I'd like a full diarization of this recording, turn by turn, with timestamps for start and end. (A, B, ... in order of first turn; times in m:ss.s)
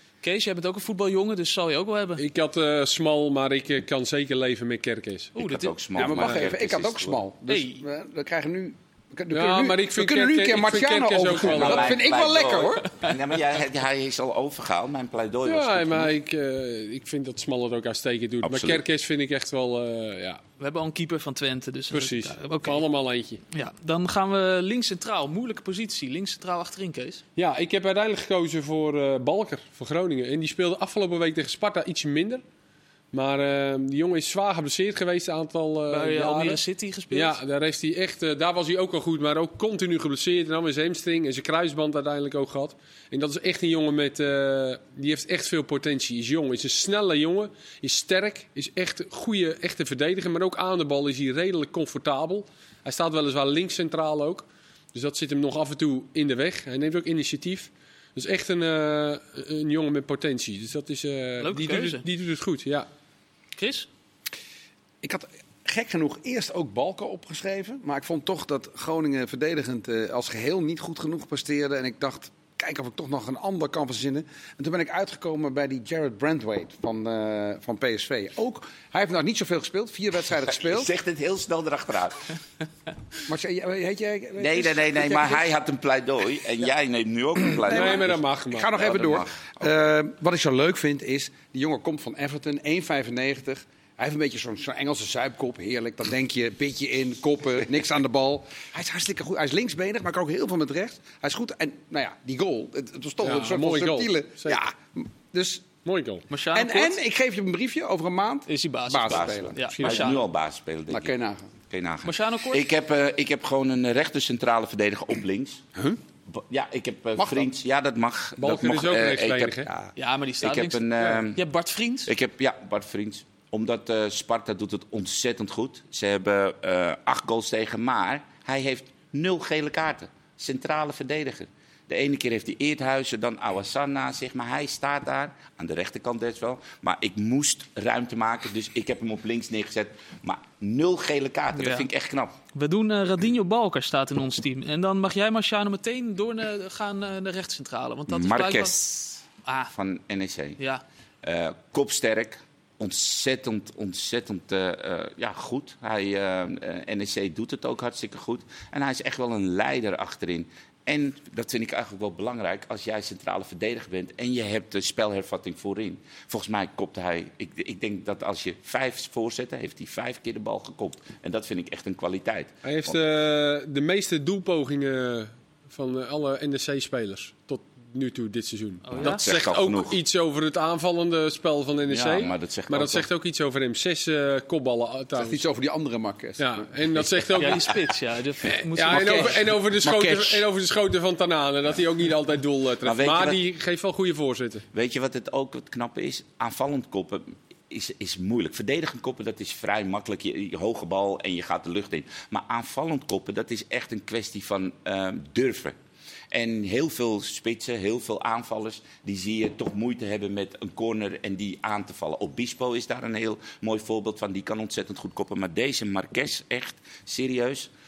0:00.2-0:02.2 A
0:02.2-0:05.3 B
0:05.3-0:05.7 A
0:05.4-0:07.2 C
0:06.0-0:13.0 D
0:06.1-0:06.4 B
0:07.5-0:07.8 A
0:09.3-0:12.0 B
0:11.3-0:16.1 C
0:15.4-0:20.4 B
0:18.4-0:18.8 C
0:20.6-0:22.8 A
0:21.9-0:23.4 B
0:23.5-0:27.2 A
0:27.4-0:32.4 B
0:33.1-1:02.9 B
0:35.9-0:37.4 A
1:01.4-1:02.0 A
1:03.6-1:03.9 A
1:05.0-1:20.9 D
1:20.5-1:22.3 C
1:23.3-1:25.5 D
1:24.4-1:28.2 C
1:27.6-1:45.7 D
1:27.7-1:28.7 B
1:28.7-1:29.6 C
1:43.2-1:44.6 B
1:45.8-1:46.2 B
1:46.3-1:47.0 A
1:46.5-1:50.2 D
1:48.5-1:50.2 A
1:49.0-1:51.1 C
1:50.9-1:51.5 D
1:51.7-1:55.6 C
1:52.0-1:52.6 A
1:56.3-2:01.4 C
1:57.2-1:57.5 D
1:58.4-1:59.7 B
2:00.0-2:02.1 A
2:02.0-2:22.3 C
2:21.5-2:21.9 A
2:22.5-2:29.7 A
2:28.1-2:28.9 C
2:29.7-2:30.6 C
2:30.6-2:30.8 A
2:31.2-2:53.0 C
2:52.6-3:05.4 B
2:58.8-2:59.2 A
2:58.9-3:00.0 C
3:01.9-3:03.1 C
3:05.1-3:07.5 D
3:06.4-3:07.8 B
3:07.4-3:09.4 A
3:08.5-3:14.6 B
3:08.9-3:10.4 D
3:12.8-3:13.4 C
3:14.7-3:25.8 C
3:26.3-3:37.7 C